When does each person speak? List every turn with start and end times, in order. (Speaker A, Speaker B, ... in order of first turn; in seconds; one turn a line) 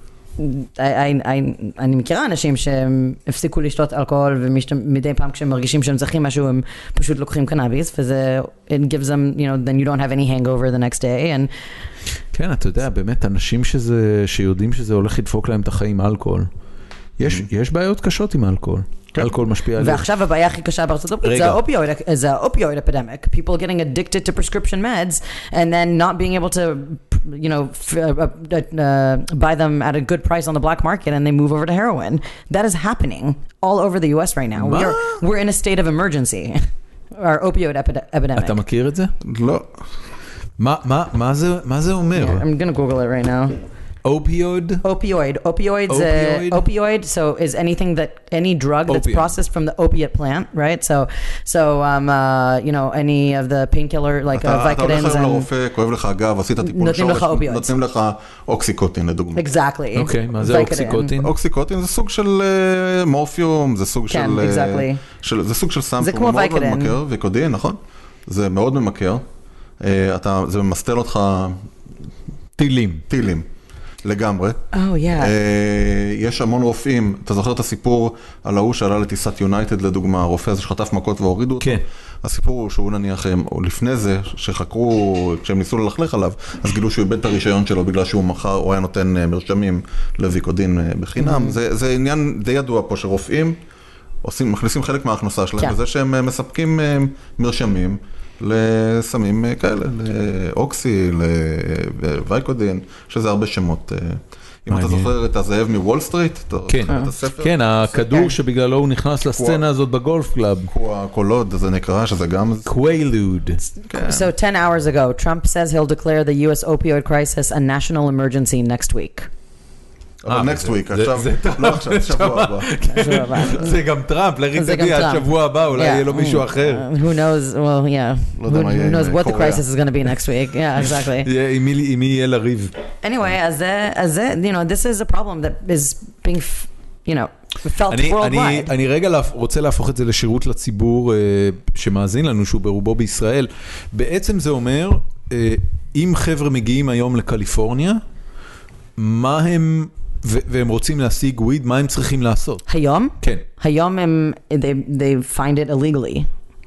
Speaker A: 0.4-11.5
Speaker B: 12.3-16.5
Speaker B: 17.2-20.0
Speaker A: 19.8-36.6
Speaker B: 21.2-21.6
Speaker B: 34.6-35.2
Speaker A: 37.2-38.6
Speaker B: 38.4-39.1
Speaker C: 39.2-39.9
Speaker B: 40.6-42.4
Speaker A: 42.2-43.6
Speaker B: 44.0-44.8
Speaker A: 44.8-55.5
Speaker B: 45.9-46.6
Speaker B: 48.9-49.3
Speaker C: 54.3-59.5
Speaker A: 56.6-57.7
Speaker A: 59.4-61.1
Speaker B: 60.0-61.3
Speaker C: 61.2-69.2
Speaker A: 64.1-65.0
Speaker A: 66.0-67.0
Speaker C: 69.8-71.6
Speaker B: 72.6-73.1
Speaker C: 73.1-73.5
Speaker C: 74.0-74.6
Speaker A: 74.7-75.3
Speaker C: 75.2-93.6
Speaker A: 91.2-91.6
Speaker C: 94.2-108.0
Speaker B: 104.7-105.1
Speaker B: 106.7-110.7
Speaker C: 109.3-109.6
Speaker C: 110.7-112.7
Speaker B: 112.7-113.6
Speaker A: 113.9-119.3
Speaker C: 113.9-114.3
Speaker C: 120.2-122.7
Speaker B: 120.3-126.8
Speaker A: 122.9-123.8
Speaker A: 124.5-131.3
Speaker C: 128.4-129.6
Speaker B: 131.2-132.7
Speaker A: 133.0-138.7
Speaker B: 137.9-148.0
Speaker B: 149.0-152.7
Speaker A: 152.7-156.3
Speaker B: 153.2-153.5